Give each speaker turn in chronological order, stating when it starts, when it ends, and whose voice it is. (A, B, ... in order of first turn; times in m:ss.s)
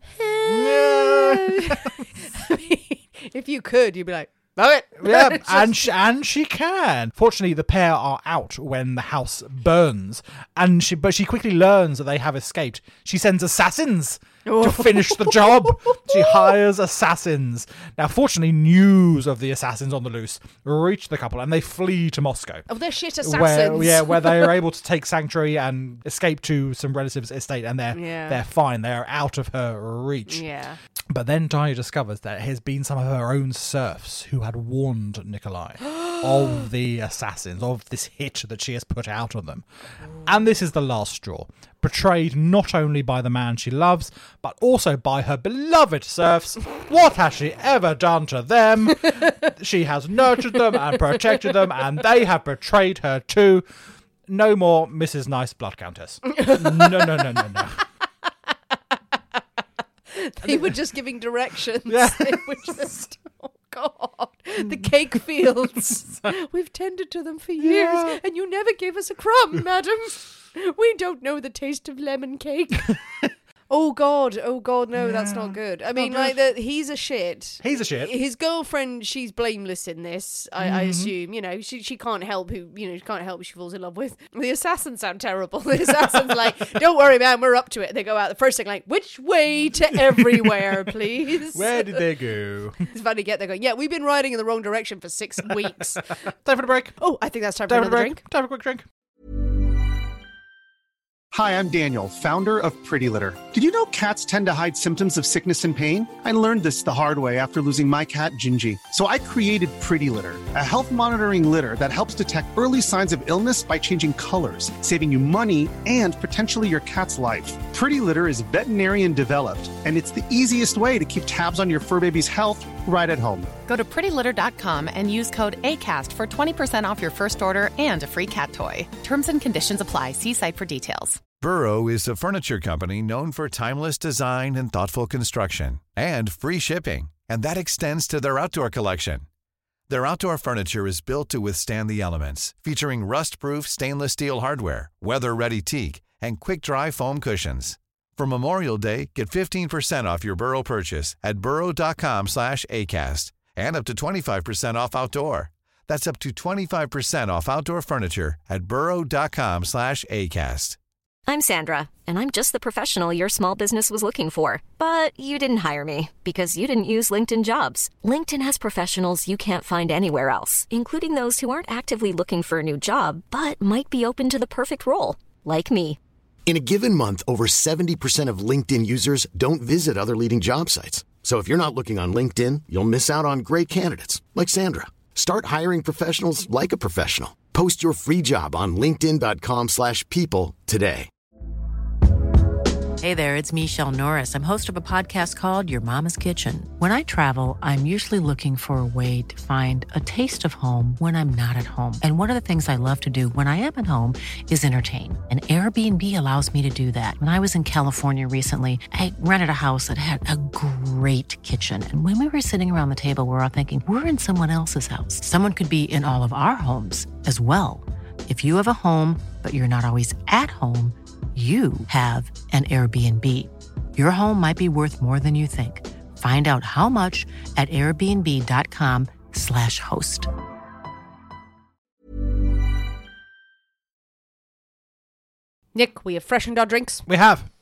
0:00.2-0:05.8 A
0:00.4-0:02.0 B
0:05.0-0:22.6 B
0:14.5-0:16.5 A
0:22.7-0:24.6 A
0:23.2-0:30.4 B
0:27.9-0:28.4 A
0:30.3-0:30.8 A
0:31.1-0:39.7 B
0:40.2-0:53.7 B
0:54.3-0:57.8 B
0:56.3-0:57.5 A
1:00.1-1:13.0 A
1:00.4-1:00.7 B
1:01.9-1:03.0 B
1:07.6-1:08.2 B
1:13.7-1:32.0 A
1:15.0-1:16.4 B
1:17.6-1:18.1 B
1:20.6-1:21.1 B
1:29.9-1:32.8 B
1:32.8-1:36.2 A
1:36.4-1:37.0 B
1:37.0-1:38.2 A
1:37.7-1:38.9 B
1:41.3-2:03.5 C
2:03.7-2:11.2 D
2:11.4-2:19.3 E
2:19.9-2:40.8 E
2:41.3-2:56.0 F
2:56.5-3:11.1 G
3:13.0-3:50.3 H
3:55.7-3:57.0 A
3:57.1-3:57.5 B